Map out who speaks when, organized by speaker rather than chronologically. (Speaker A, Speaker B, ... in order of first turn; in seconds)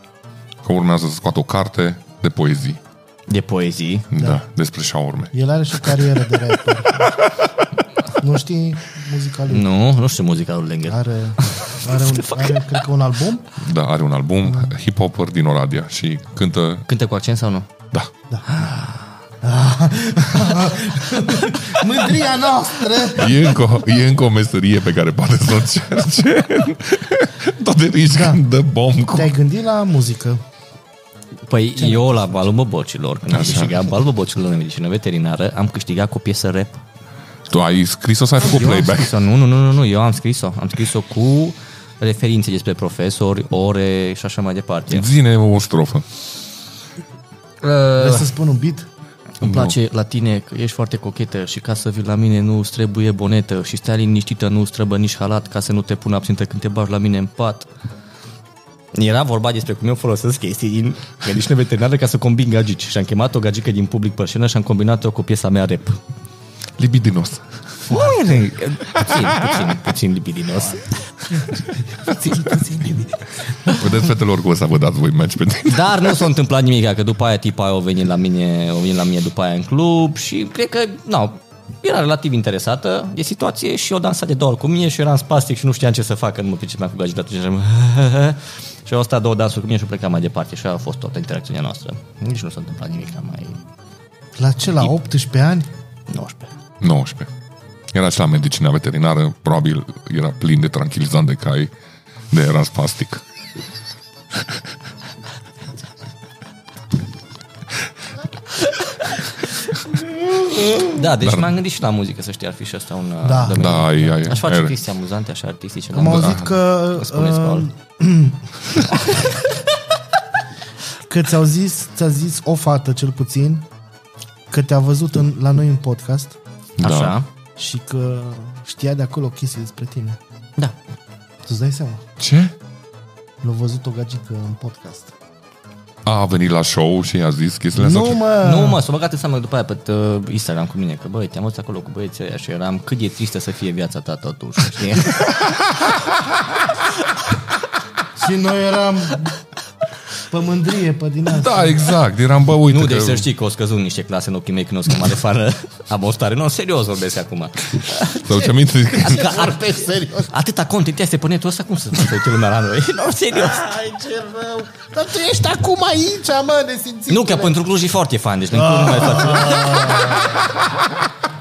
Speaker A: 0.6-2.8, 4.1-5.3, 13.6-16.9, 23.1-29.3, 33.3-33.9, 37.5-39.1, 44.9-46.0, 49.4-49.7, 66.8-67.4, 69.1-69.4, 73.7-76.2, 96.8-97.3, 97.9-101.7, 102.3-103.2, 111.2-111.5, 113.5-114.7, 116.2-116.4, 126.8-127.2, 132.2-132.5, 136.1-138.2, 151.3-153.3, 158.0-159.3
Speaker B: 3.3-4.1, 9.5-12.8, 16.9-17.7, 18.5-19.0, 31.5-36.8, 38.4-45.1, 47.6-48.3, 49.4-57.7, 58.9-66.0, 67.9-71.4, 75.7-93.6, 96.1-96.5, 110.8-117.7, 126.8-127.3, 138.4-145.4, 152.7-158.2, 159.0-163.7, 167.1-170.5
Speaker C: 5.3-7.1, 8.2-9.7, 10.9-13.5, 19.4-23.5, 28.1-28.4, 29.1-30.4, 31.8-32.0, 48.0-48.9, 72.1-73.1, 94.3-95.7, 113.2-114.2, 115.9-118.4, 121.1-123.6, 124.5-126.3, 127.6-130.2, 131.4-132.0, 133.4-135.1, 137.7-138.8, 148.2-149.3, 150.3-151.9, 158.3-160.3, 163.4-167.6, 168.5-170.6